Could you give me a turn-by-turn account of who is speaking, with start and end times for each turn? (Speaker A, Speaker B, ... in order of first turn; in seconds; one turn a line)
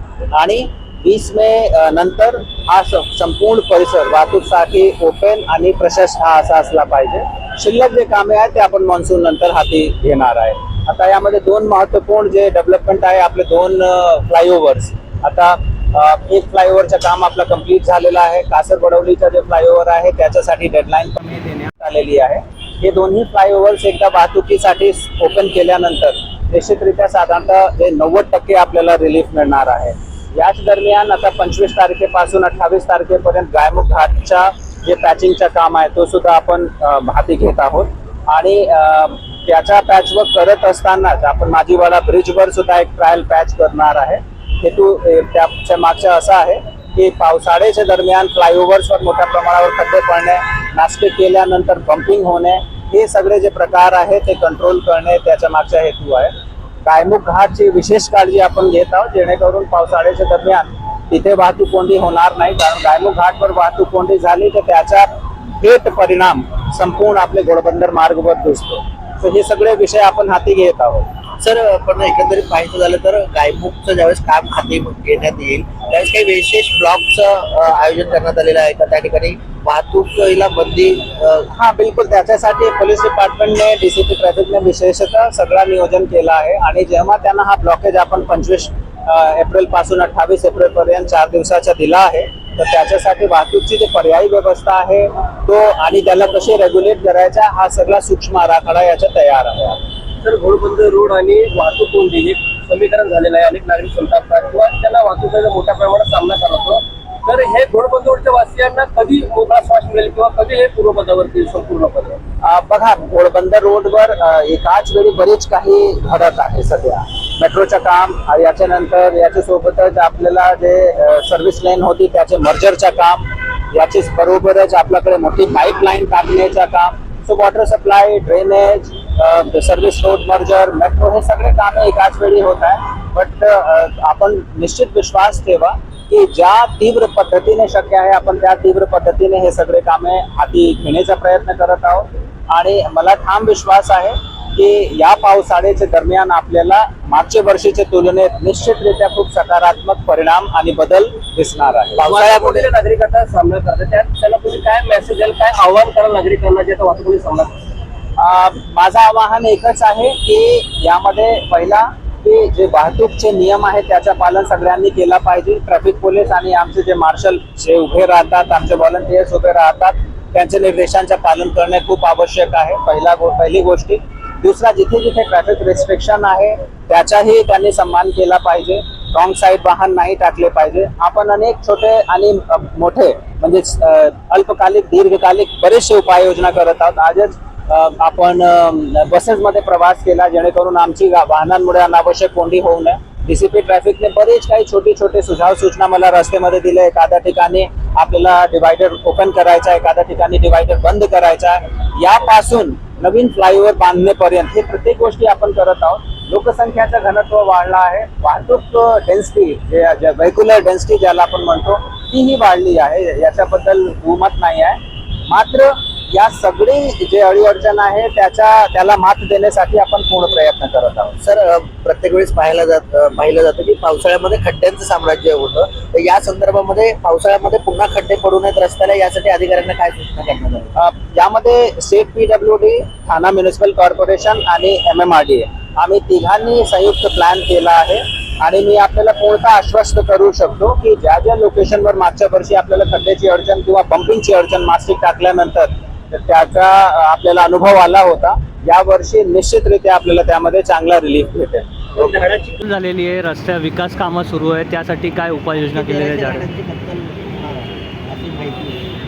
Speaker A: 0.3-56.3
Speaker A: 56.8-71.1
Speaker B: 71.4-81.5
Speaker A: 81.5-99.8
Speaker C: 100.2-112.2
Speaker A: 112.4-152.7
Speaker C: 151.9-157.5
Speaker A: 158.2-221.2
Speaker B: 221.2-230.7
Speaker A: 230.8-252.0
Speaker C: 252.0-252.5
Speaker D: 252.6-256.5
Speaker B: 255.7-258.8